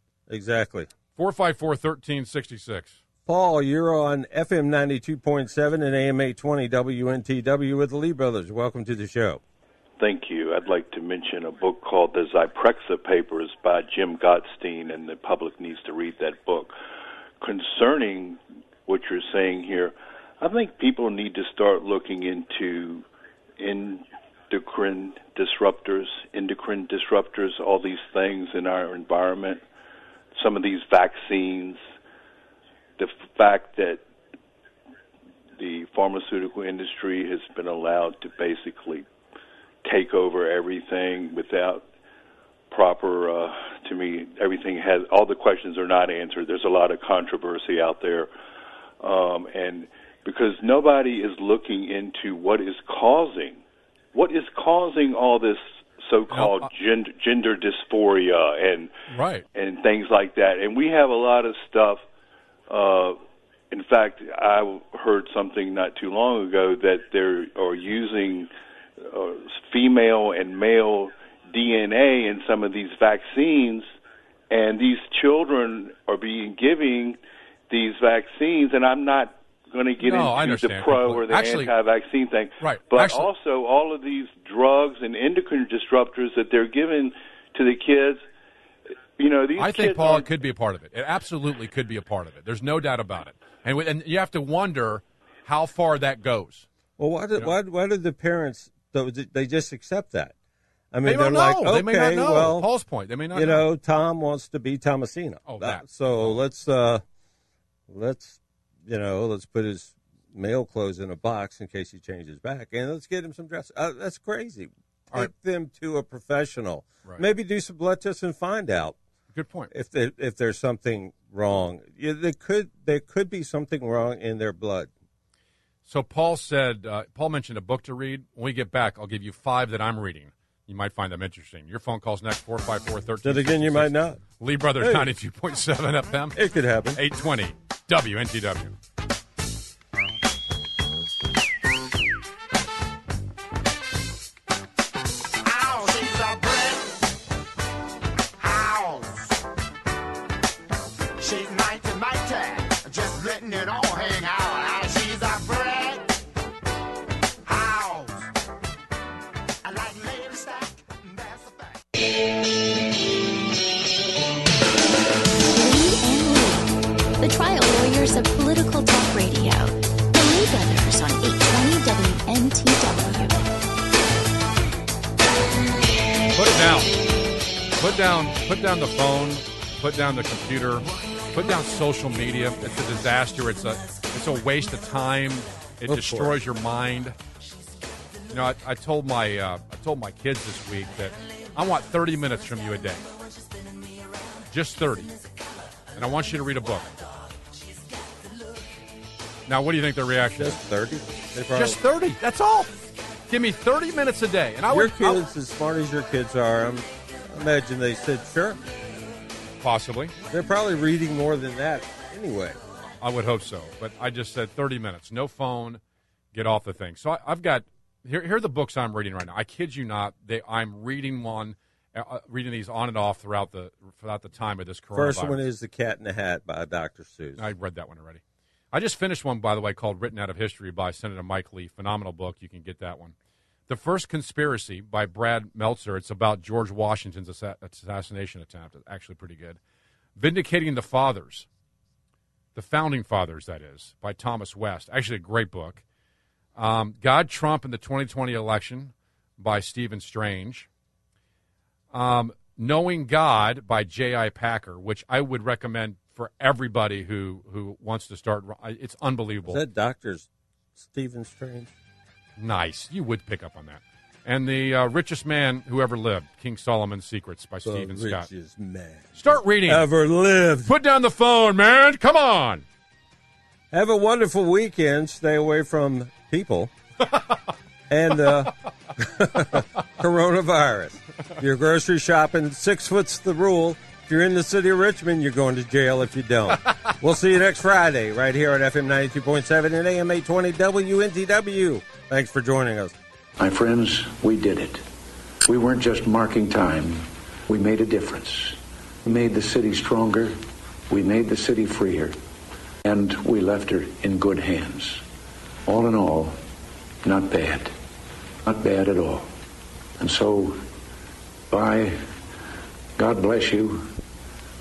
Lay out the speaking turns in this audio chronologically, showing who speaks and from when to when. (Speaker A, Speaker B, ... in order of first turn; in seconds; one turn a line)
Speaker A: 0.3-0.9
Speaker B: 1.1-3.0
Speaker A: 3.3-9.4
Speaker C: 10.0-16.7
Speaker C: 17.4-23.1
Speaker C: 23.6-29.6
Speaker C: 30.3-31.8
Speaker C: 33.0-34.0
Speaker C: 35.6-39.1
Speaker C: 39.8-41.9
Speaker C: 42.7-48.3
Speaker C: 49.0-53.6
Speaker C: 54.1-58.9
Speaker B: 56.3-56.7
Speaker B: 59.1-59.5
Speaker C: 59.5-62.0
Speaker C: 62.7-63.2
Speaker C: 63.7-73.9
Speaker C: 74.5-77.2
Speaker C: 77.7-88.2
Speaker B: 80.0-81.7
Speaker B: 82.6-83.3
Speaker C: 89.2-90.3
Speaker B: 89.6-96.7
Speaker A: 97.0-100.3
Speaker A: 100.9-102.7
Speaker B: 101.0-103.7
Speaker A: 103.3-107.0
Speaker B: 105.5-106.4
Speaker A: 107.9-119.0
Speaker B: 119.3-119.7
Speaker A: 119.7-124.9
Speaker B: 125.9-136.4
Speaker A: 133.2-134.2
Speaker A: 134.8-135.1
Speaker A: 136.3-137.0
Speaker B: 136.9-138.8
Speaker D: 145.4-147.1
Speaker D: 148.4-149.4
Speaker D: 151.2-156.2
Speaker D: 157.4-158.3
Speaker D: 159.6-161.8
Speaker E: 165.5-173.4
Speaker B: 176.3-176.9
Speaker B: 177.8-187.2
Speaker A: 185.9-186.4
Speaker B: 188.3-193.0
Speaker B: 194.5-195.2
Speaker B: 195.9-197.0
Speaker B: 199.5-200.6
Speaker A: 200.3-201.8
Speaker B: 201.5-202.8
Speaker B: 203.3-205.2
Speaker A: 204.7-208.6
Speaker B: 209.6-210.2
Speaker A: 210.3-212.6
Speaker B: 213.0-215.8
Speaker B: 216.3-225.5
Speaker A: 224.9-227.5
Speaker B: 227.4-233.1
Speaker B: 233.7-239.6
Speaker B: 240.2-241.5
Speaker B: 242.6-245.8
Speaker B: 246.6-250.7
Speaker B: 251.9-259.6
Speaker A: 259.4-261.7
Speaker B: 262.4-268.3
Speaker A: 267.6-270.7
Speaker B: 269.1-269.9
Speaker B: 270.7-272.6
Speaker A: 273.7-276.7
Speaker A: 277.9-292.9
Speaker F: 293.4-294.8
Speaker F: 295.4-300.4
Speaker F: 300.9-302.2
Speaker F: 302.8-305.0
Speaker F: 305.7-306.4
Speaker F: 307.0-307.7
Speaker F: 308.4-309.3
Speaker F: 310.0-310.6
Speaker F: 311.5-312.0
Speaker F: 313.0-313.9